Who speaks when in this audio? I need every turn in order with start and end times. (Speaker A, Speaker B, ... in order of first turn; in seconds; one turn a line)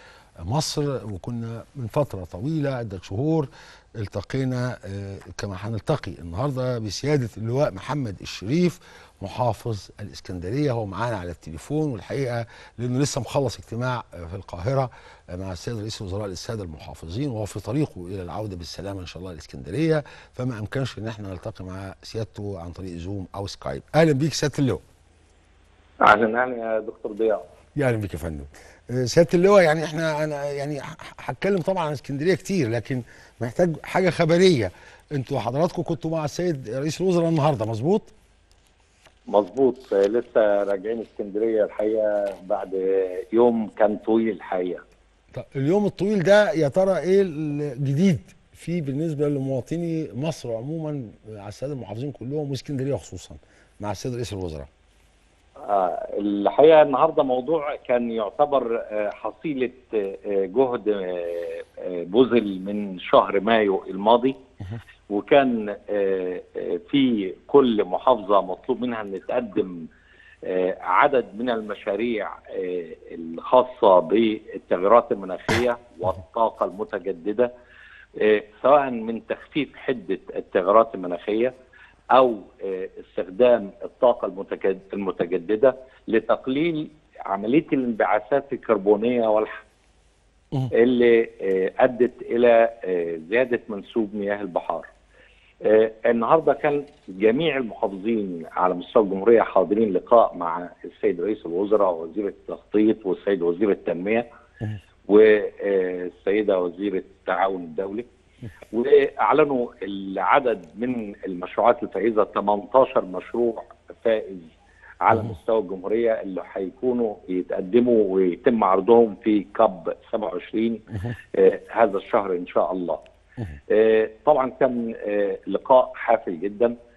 Speaker A: 0.4-24.8
Speaker B: 26.0-27.4
Speaker A: 27.8-38.1
Speaker B: 39.3-44.8
Speaker A: 45.3-54.7
Speaker B: 55.7-64.4
Speaker B: 65.1-69.9
Speaker B: 70.4-77.5
Speaker B: 78.2-81.5
Speaker B: 82.1-89.6
Speaker B: 90.7-94.9
Speaker B: 95.6-104.2
Speaker B: 105.1-108.1
Speaker B: 108.7-123.0
Speaker A: 115.1-115.3
Speaker B: 123.7-126.7